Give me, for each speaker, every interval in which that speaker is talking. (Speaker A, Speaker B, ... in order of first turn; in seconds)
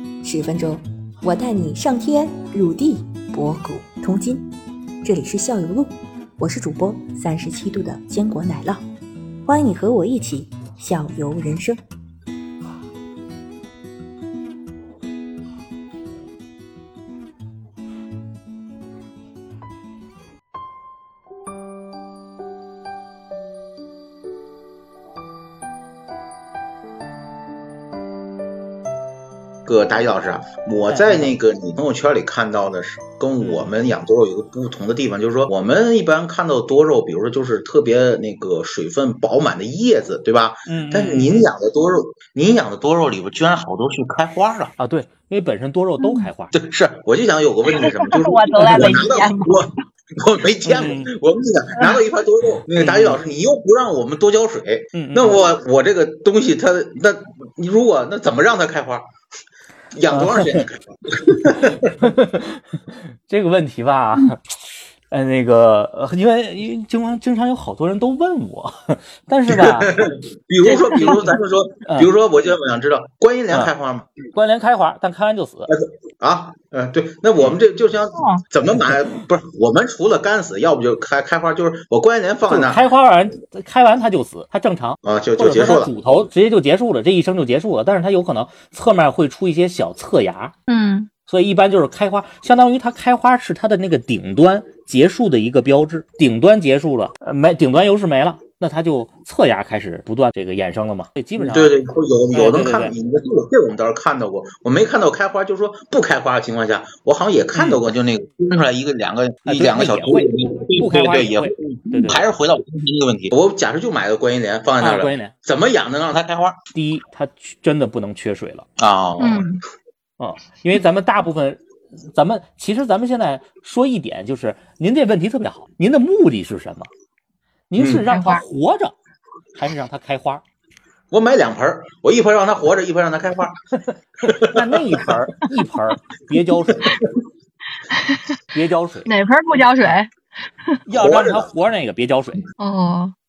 Speaker A: 0.2-4.5, 5.0-8.8, 9.5-11.8
Speaker B: 29.7-44.7, 46.5-59.1, 59.9-61.9, 69.5-74.1, 75.7-82.9, 85.0-85.9, 101.4-116.6, 118.8-119.5, 127.8-128.0, 131.1-133.5, 134.3-134.5, 140.9-141.5
Speaker C: 30.9-31.4, 33.4-33.7, 40.7-41.5, 44.8-46.5, 50.6-51.1, 52.7-53.2, 54.9-55.4, 60.1-60.6, 61.8-70.0, 71.0-72.1, 74.3-75.7, 82.5-90.5, 91.3-101.7, 102.3-102.9, 107.5-107.8, 109.5-112.3, 114.8-115.3, 116.7-118.7, 120.2-126.9, 127.7-128.9, 129.6-130.4, 134.5-136.9, 138.5-139.1, 140.9-142.4
Speaker D: 46.0-46.3, 47.8-49.7, 70.7-71.3, 78.2-78.4, 90.7-91.1, 119.2-119.6, 128.1-128.4, 137.9-138.2, 139.1-140.1, 142.6-143.1